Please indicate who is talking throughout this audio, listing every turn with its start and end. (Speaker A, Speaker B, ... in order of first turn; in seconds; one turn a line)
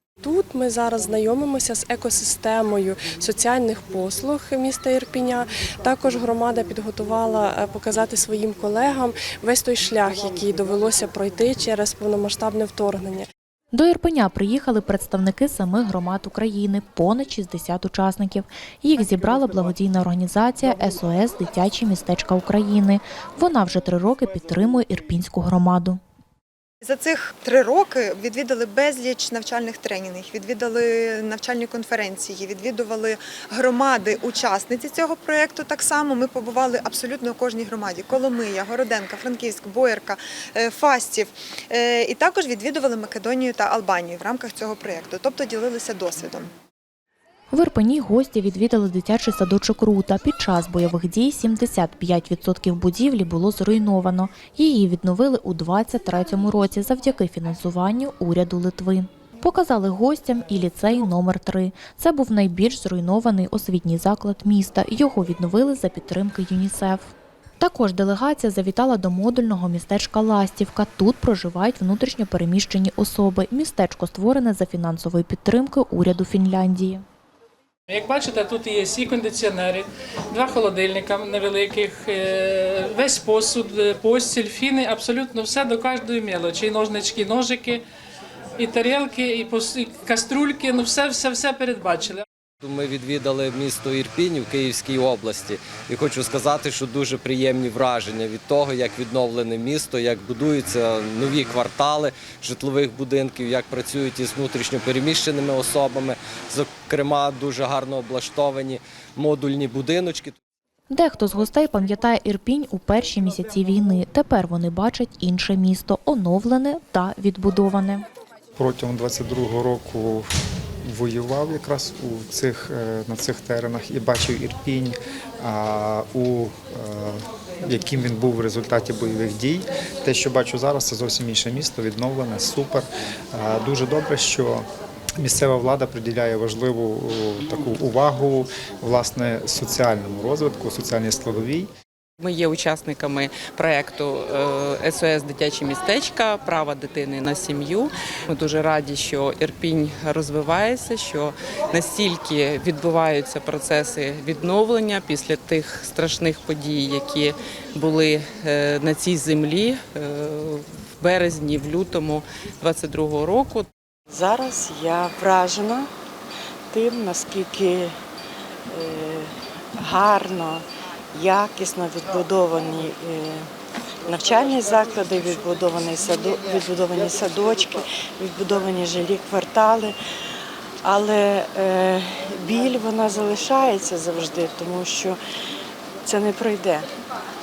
Speaker A: 0.2-13.2
Speaker B: 13.7-26.0
Speaker C: 26.8-46.5
Speaker B: 47.5-77.0
Speaker D: 77.9-87.8
Speaker D: 88.6-92.2
Speaker E: 92.6-110.3
Speaker B: 110.9-118.0
Speaker F: 118.6-120.3
Speaker F: 120.8-134.7
Speaker F: 135.2-141.7
Speaker G: 142.2-163.7
Speaker H: 164.1-165.9
Speaker H: 166.7-167.9
Speaker H: 168.7-173.5
Speaker H: 174.1-179.9
Speaker H: 180.8-185.2
Speaker H: 186.0-186.9